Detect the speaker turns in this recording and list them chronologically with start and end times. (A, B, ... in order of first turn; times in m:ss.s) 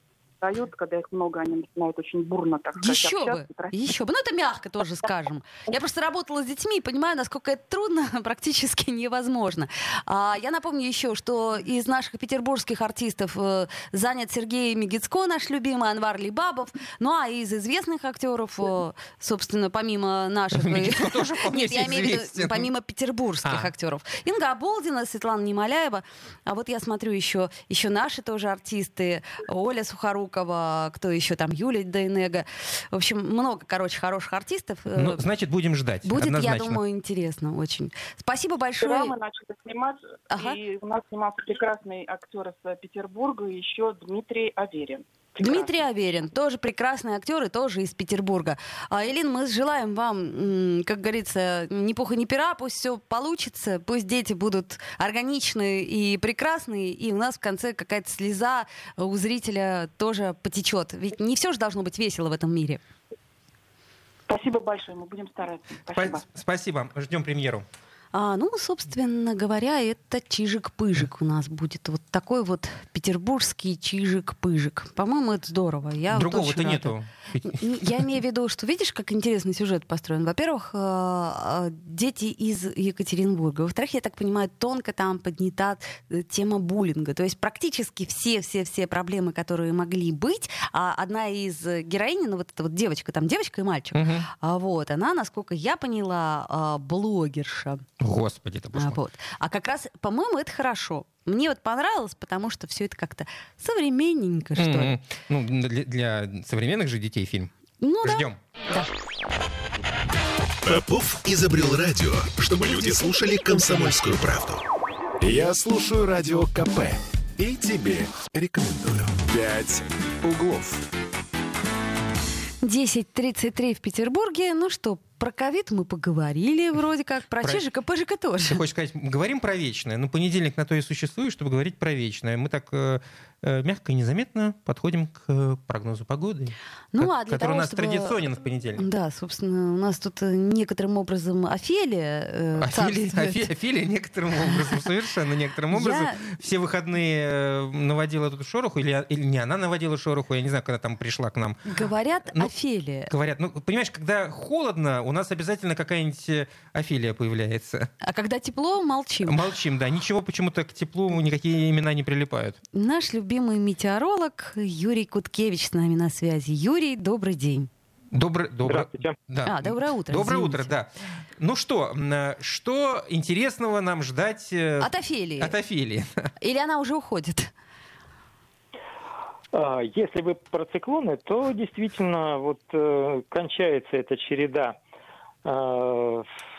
0:00.4-0:03.7 A
0:02.8-0:35.2 B
0:20.6-0:22.7 C
0:23.4-0:23.7 C
0:34.9-0:36.8 C
0:36.0-0:39.1 B
0:38.8-0:46.0 A
0:40.3-0:40.6 B
0:45.4-1:02.8 B
1:04.3-1:06.2 A
1:05.9-1:07.6 C
1:08.1-1:37.8 B
1:16.1-1:18.0 C
1:33.9-1:34.3 C
1:38.0-1:39.0 C
1:38.7-1:44.9 B
1:44.6-1:47.5 C
1:47.8-1:48.9 B
1:48.0-1:48.4 C
1:50.6-1:54.6 D
1:55.2-2:00.8 D
2:02.6-2:08.6 B
2:08.4-2:18.8 C
2:16.9-2:18.2 B
2:18.8-2:23.5 B
2:22.6-2:31.6 C
2:25.7-2:26.2 B
2:31.6-2:33.1 B
2:33.1-2:37.9 C
2:38.0-2:39.4 B
2:39.2-2:42.6 C
2:42.7-2:47.7 B
2:48.1-2:56.3 C
2:48.6-2:49.1 E
2:49.4-2:50.7 B
2:54.8-2:55.5 B
2:56.4-2:57.5 B
2:59.5-3:04.8 E
3:05.4-3:06.3 E